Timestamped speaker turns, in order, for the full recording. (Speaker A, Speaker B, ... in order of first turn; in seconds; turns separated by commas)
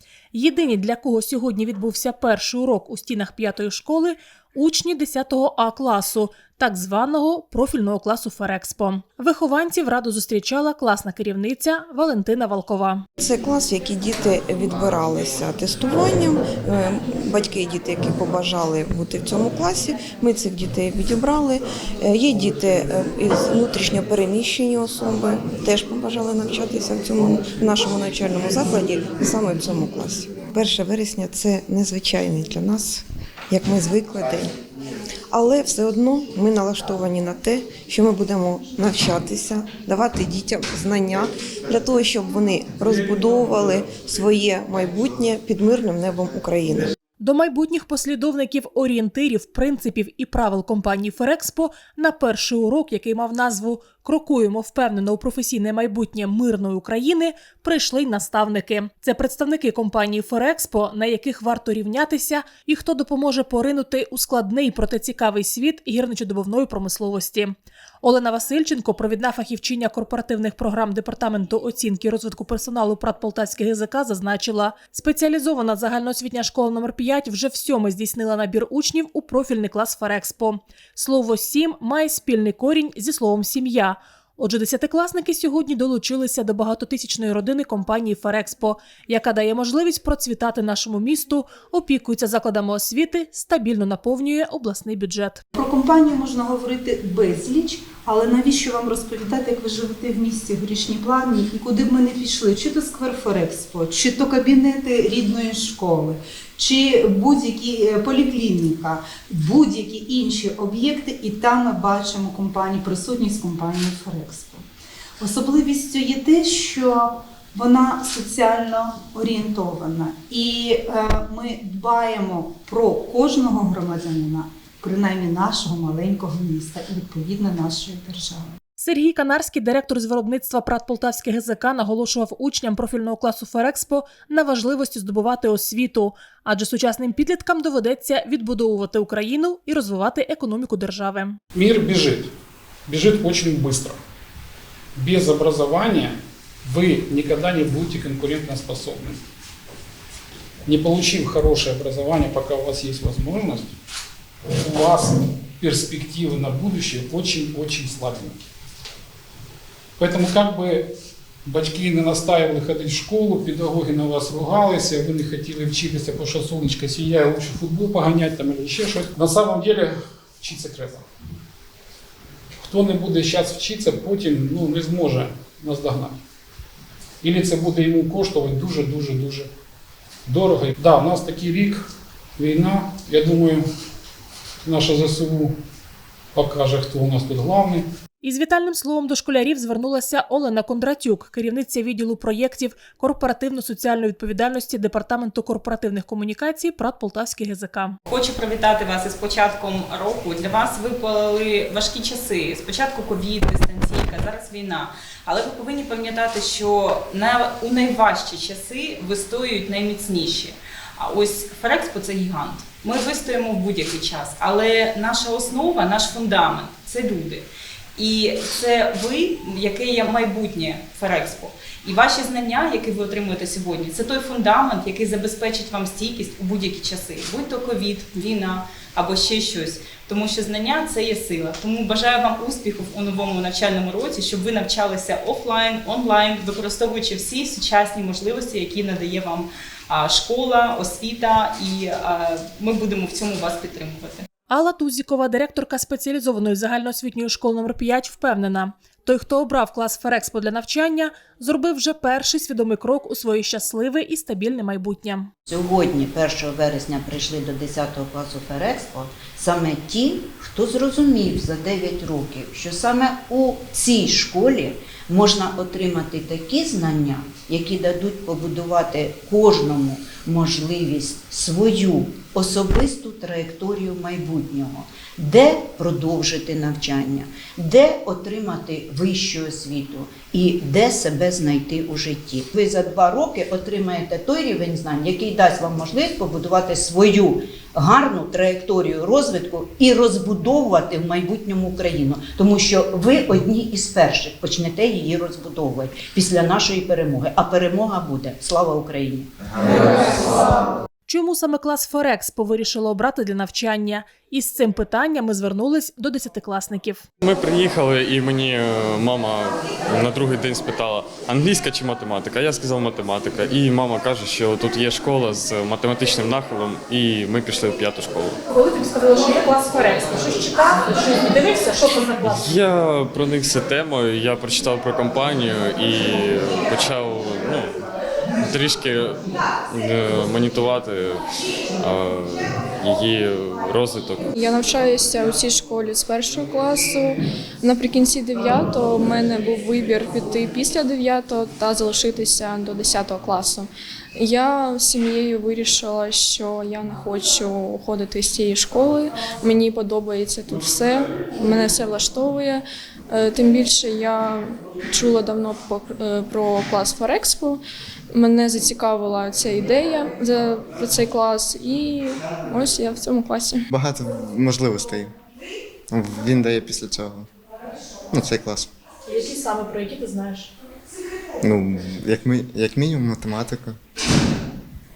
Speaker A: 0.3-13.0, Speaker B: 13.2-34.5, Speaker B: 35.3-46.9, Speaker A: 47.2-95.4, Speaker C: 95.5-114.7, Speaker C: 115.2-128.6, Speaker A: 128.8-141.4, Speaker D: 141.5-142.3, Speaker D: 142.9-144.0, Speaker D: 145.0-149.2, Speaker D: 150.7-153.7, Speaker D: 154.6-158.4, Speaker D: 160.0-160.9, Speaker D: 161.4-171.0, Speaker D: 172.6-176.2, Speaker D: 177.2-179.5, Speaker D: 180.3-181.8, Speaker D: 182.4-183.6, Speaker D: 184.7-185.6, Speaker D: 186.3-187.9, Speaker A: 188.2-198.0, Speaker E: 198.1-244.3, Speaker A: 244.5-255.3, Speaker F: 255.5-299.3, Speaker A: 301.1-307.0, Speaker G: 307.2-318.4, Speaker A: 318.5-322.5, Speaker G: 322.5-327.7, Speaker G: 328.5-329.1, Speaker G: 329.7-331.2, Speaker G: 331.8-334.2, Speaker H: 334.3-357.6, Speaker H: 358.1-363.7, Speaker I: 363.7-365.1, Speaker I: 365.9-367.3, Speaker I: 368.1-368.7, Speaker A: 369.1-370.5, Speaker I: 371.4-373.8